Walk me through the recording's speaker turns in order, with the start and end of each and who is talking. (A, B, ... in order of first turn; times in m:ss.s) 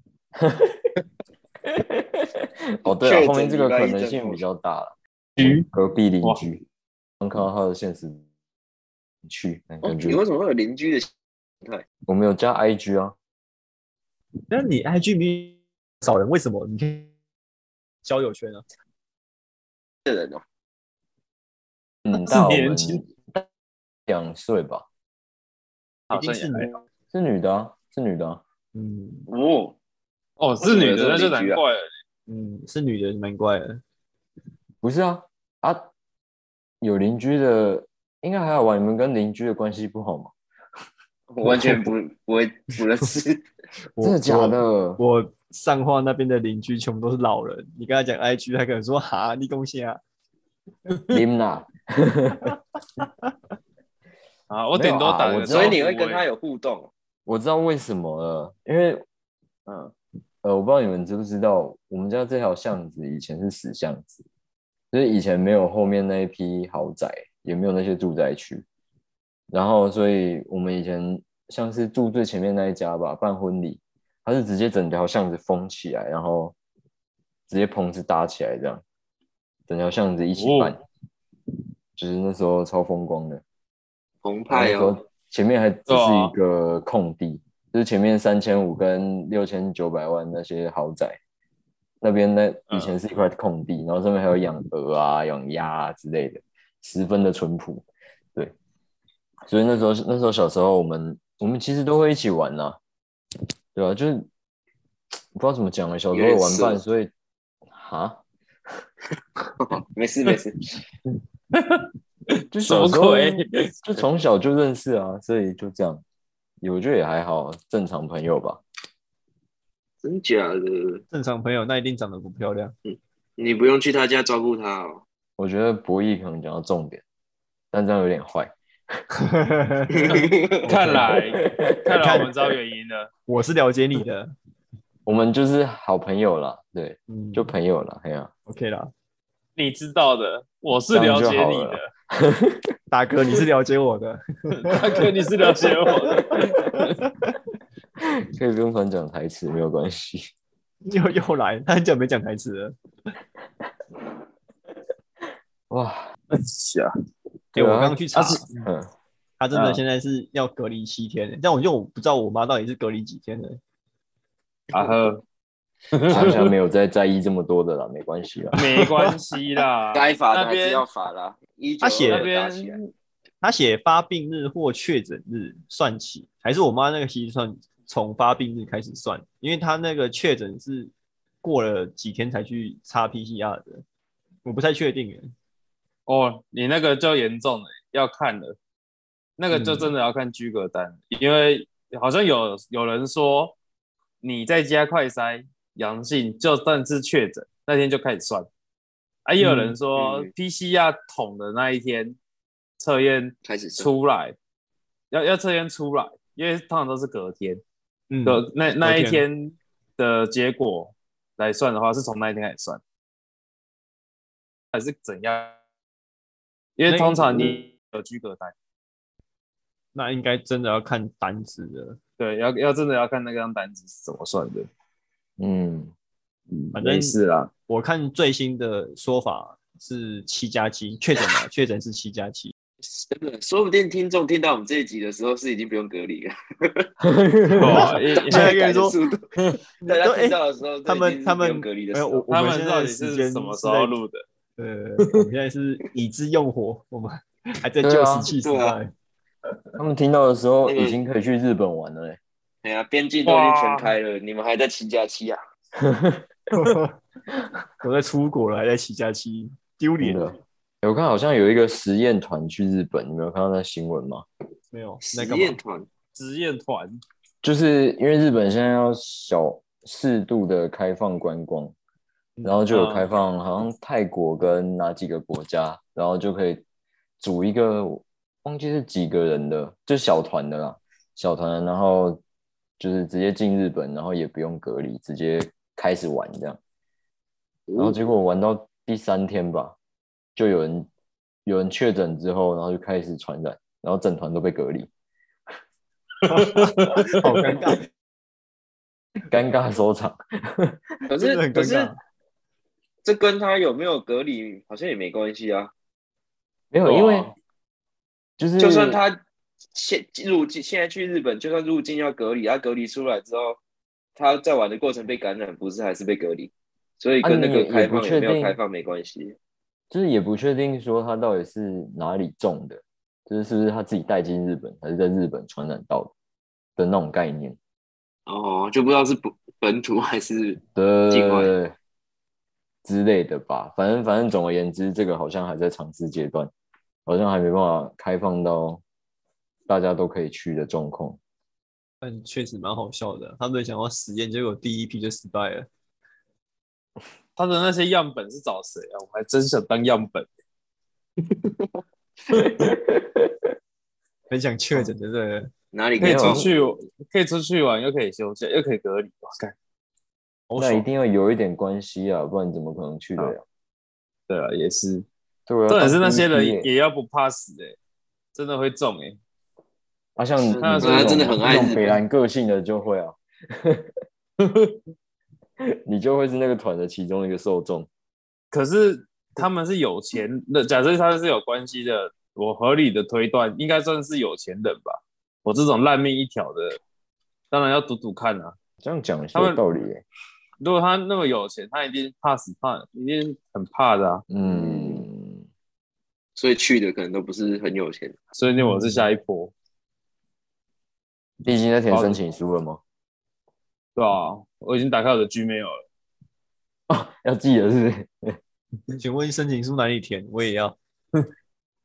0:00.4-0:00.9 A
0:01.6-0:06.6 A
0:02.8-0:04.4 B
0:05.4-0:05.6 C
0:07.2-0:08.2 A
0:09.2-0:10.2 A
0:09.8-0:11.1 B
0:12.0-0:13.1 A
0:14.5-0:17.1 D
0:18.0-0:18.6 D
0:20.0-0:20.4 B
0:22.0-0:23.4 A
0:22.1-0:23.0 C
0:24.1-0:24.8 A
0:26.1-0:26.8 C
0:26.1-0:26.7 D
0:27.1-0:28.4 A
0:28.7-0:29.3 D
0:29.3-0:29.8 B
0:30.4-0:31.9 C
0:30.6-0:31.6 B
0:32.3-0:33.8 D
0:34.8-0:35.9 A
0:36.8-0:40.3 A
0:41.3-0:43.4 B
0:44.0-0:50.0 D
0:44.0-0:45.0 A
0:51.1-0:52.5 A
0:54.5-0:56.2 C
0:54.7-0:55.8 A
0:55.4-0:56.9 B
0:57.2-0:59.0 A
0:59.7-0:59.9 C
1:00.4-1:04.2 A
1:04.9-1:08.6 A
1:09.5-1:16.5 A
1:17.5-1:18.8 A
1:19.7-1:20.8 A
1:20.4-1:20.8 C
1:22.0-1:23.4 A
1:24.2-1:25.0 B
1:24.5-1:31.2 A
1:25.9-1:26.3 C
1:32.0-1:38.5 A
1:39.5-1:42.8 A
1:43.7-1:44.3 A
1:45.3-1:47.1 A
1:46.1-1:46.8 B
1:47.7-1:48.2 A
1:49.6-1:50.6 B
1:51.5-1:53.7 C
1:52.5-1:56.0 A
1:56.6-1:58.6 A
2:00.0-2:01.0 B
2:01.1-2:02.7 D
2:02.8-2:05.0 B
2:05.4-2:07.0 A
2:07.7-2:08.5 A
2:09.1-2:11.2 D
2:09.9-2:10.7 B
2:10.7-2:13.1 C
2:11.4-2:12.0 A
2:11.9-2:12.3 D
2:13.3-2:14.3 D
2:15.0-2:18.3 A
2:17.1-2:17.5 D
2:18.5-2:18.9 D
2:19.6-2:21.9 C
2:20.9-2:22.7 A
2:22.9-2:25.0 D
2:24.6-2:26.9 C
2:26.1-2:27.3 D
2:28.0-2:30.3 A
2:30.8-2:32.7 D
2:35.7-2:36.1 A
2:36.3-2:36.9 C
2:37.5-2:38.0 A
2:37.5-2:38.5 D
2:38.1-2:38.5 C
2:38.5-2:38.9 A
2:39.4-2:43.6 D
2:39.5-2:39.8 C
2:44.7-2:45.2 C
2:45.9-2:46.5 C
2:46.1-2:48.6 A
2:48.5-2:50.8 C
2:48.6-2:49.1 D
2:49.9-2:52.8 B
2:51.8-2:52.3 D
2:52.1-2:52.9 C
2:53.4-3:00.9 D
3:01.4-3:03.8 D
3:04.4-3:05.3 D
3:06.1-3:08.6 C
3:09.4-3:13.6 C
3:09.5-3:09.9 D
3:14.2-3:18.5 C
3:19.2-3:22.2 C
3:19.4-3:19.8 D
3:19.9-3:20.3 B
3:22.8-3:24.4 C
3:23.4-3:23.9 B
3:25.1-3:27.6 C
3:28.1-3:29.2 D
3:28.2-3:32.8 C
3:34.7-3:35.6 C
3:36.8-3:38.5 C
3:36.9-3:37.6 D
3:39.9-3:42.0 D
3:42.2-3:44.7 C
3:45.4-3:45.9 A
3:46.5-3:47.5 C
3:46.7-3:47.2 D
3:47.7-3:52.5 D
3:52.8-3:56.9 B
3:57.0-3:57.9 A
3:57.6-3:58.6 C
3:57.7-3:58.9 D
3:58.1-3:59.3 B
3:59.8-4:03.9 D
3:59.8-4:02.2 B
4:02.3-4:04.2 C
4:04.6-4:08.9 D
4:07.8-4:08.3 A
4:08.4-4:08.8 B
4:09.8-4:12.2 A
4:10.6-4:11.0 B
4:12.6-4:15.4 B
4:13.2-4:13.9 C
4:15.8-4:16.2 A
4:16.5-4:16.9 D
4:17.8-4:20.4 D
4:20.0-4:24.2 A
4:24.7-4:25.6 D
4:25.0-4:25.9 B
4:26.1-4:27.0 C
4:27.4-4:31.7 A
4:32.4-4:36.6 A
4:32.7-4:33.1 C
4:37.2-4:42.2 A
4:42.8-4:46.6 A
4:47.7-4:48.0 B
4:47.8-4:49.8 A
4:50.4-4:50.9 A
4:51.4-4:54.9 A
4:56.2-4:57.8 D
4:56.4-4:57.1 C
4:59.3-5:00.8 A
5:01.1-5:01.9 B
5:01.2-5:02.0 D
5:03.0-5:05.7 B
5:06.7-5:07.3 A
5:06.8-5:07.3 C
5:08.4-5:09.0 A
5:08.6-5:09.2 B
5:09.7-5:13.6 B
5:14.2-5:19.4 B
5:17.2-5:18.6 A
5:19.9-5:26.1 A
5:26.8-5:27.6 A
5:28.3-5:30.6 B
5:30.7-5:31.7 A
5:31.1-5:31.5 B
5:32.8-5:36.5 A
5:37.0-5:38.8 A
5:39.7-5:41.2 A
5:42.0-5:45.7 D
5:47.4-5:50.3 C
5:52.3-5:53.3 A
5:54.3-5:55.5 D
5:55.7-5:56.5 B
5:56.0-5:56.5 A
5:56.0-5:59.5 C
6:00.5-6:00.8 D
6:00.6-6:03.4 A
6:04.3-6:05.0 C
6:05.5-6:06.7 A
6:05.7-6:07.8 C
6:08.3-6:09.2 C
6:10.2-6:13.9 A
6:10.5-6:12.0 B
6:10.6-6:11.4 C
6:14.4-6:14.8 C
6:15.8-6:17.9 A
6:18.5-6:26.8 C
6:27.5-6:28.6 C
6:28.8-6:30.0 A
6:29.3-6:29.6 C
6:30.6-6:34.2 C
6:34.3-6:35.4 A
6:34.5-6:35.0 B
6:36.4-6:38.2 B
6:38.3-6:39.5 C
6:38.5-6:39.0 D
6:41.4-6:42.8 A
6:41.9-6:42.2 C
6:44.0-6:45.8 C
6:46.9-6:48.4 A
6:49.0-6:50.8 D